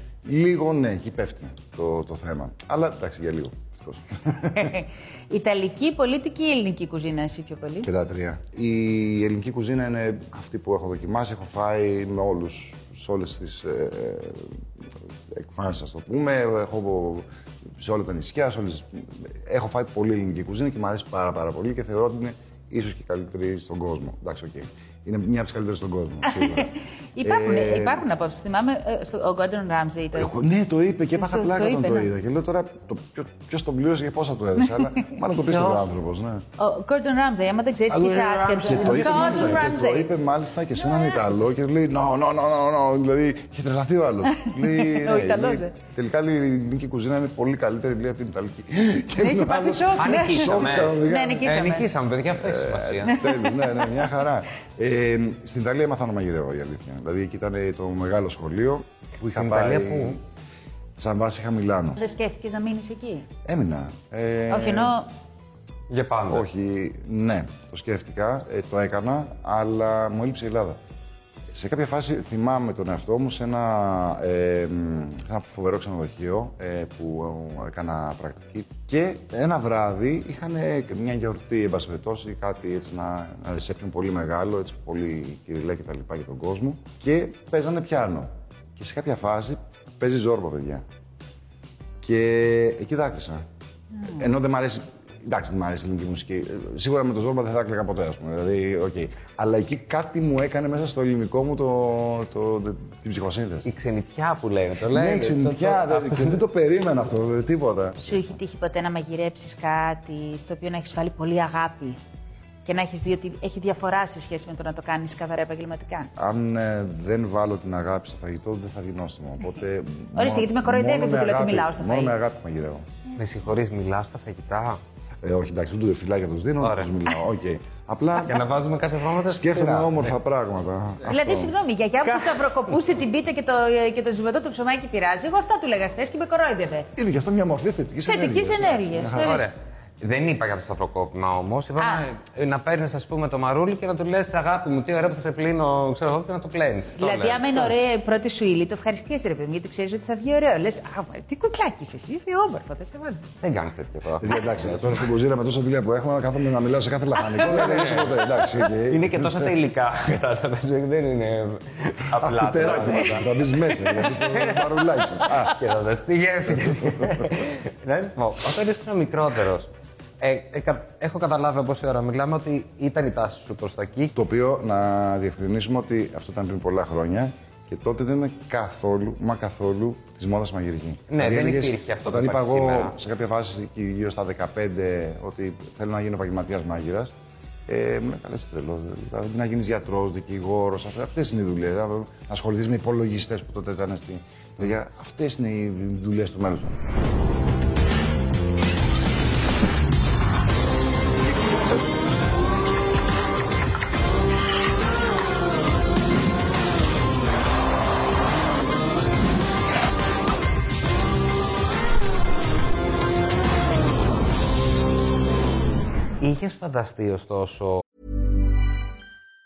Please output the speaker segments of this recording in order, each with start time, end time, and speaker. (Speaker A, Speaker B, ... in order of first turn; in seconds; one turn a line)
Speaker A: 0.2-4.7
Speaker B: 4.6-7.9
Speaker A: 7.8-14.6
Speaker A: 15.3-17.2
Speaker A: 17.8-28.0
Speaker B: 26.5-30.3
Speaker A: 30.1-36.4
Speaker B: 31.1-32.1
Speaker B: 34.6-35.0
Speaker C: 35.4-35.9
Speaker B: 36.6-40.1
Speaker C: 37.9-39.7
Speaker A: 38.6-51.5
Speaker B: 44.4-45.7
Speaker B: 49.2-51.9
Speaker C: 49.9-53.1
Speaker A: 52.4-60.2
Speaker B: 53.1-53.9
Speaker C: 59.3-60.2
Speaker A: 61.0-62.0
Speaker B: 62.0-63.3
Speaker A: 63.4-65.0
Speaker B: 64.5-65.1
Speaker C: 65.9-66.5
Speaker A: 66.3-70.8
Speaker A: 71.5-90.8
Speaker A: 92.0-93.4
Speaker A: 94.0-103.7
Speaker C: 103.6-106.4
Speaker A: 104.9-108.3
Speaker B: 108.0-112.0
Speaker B: 112.6-116.1
Speaker A: 116.2-122.8
Speaker B: 120.2-122.1
Speaker C: 123.1-124.8
Speaker A: 125.2-128.5
Speaker C: 126.6-126.9
Speaker C: 128.2-130.2
Speaker A: 129.2-131.5
Speaker B: 131.1-136.9
Speaker C: 132.0-132.8
Speaker A: 136.9-139.5
Speaker B: 138.0-139.5
Speaker C: 139.1-147.7
Speaker B: 141.8-142.1
Speaker B: 147.0-153.2
Speaker C: 153.4-155.0
Speaker A: 154.2-159.6
Speaker C: 157.4-174.1
Speaker A: 162.2-165.6
Speaker A: 174.1-187.1
Speaker C: 181.1-182.9
Speaker A: 187.7-196.8
Speaker C: 216.2-217.8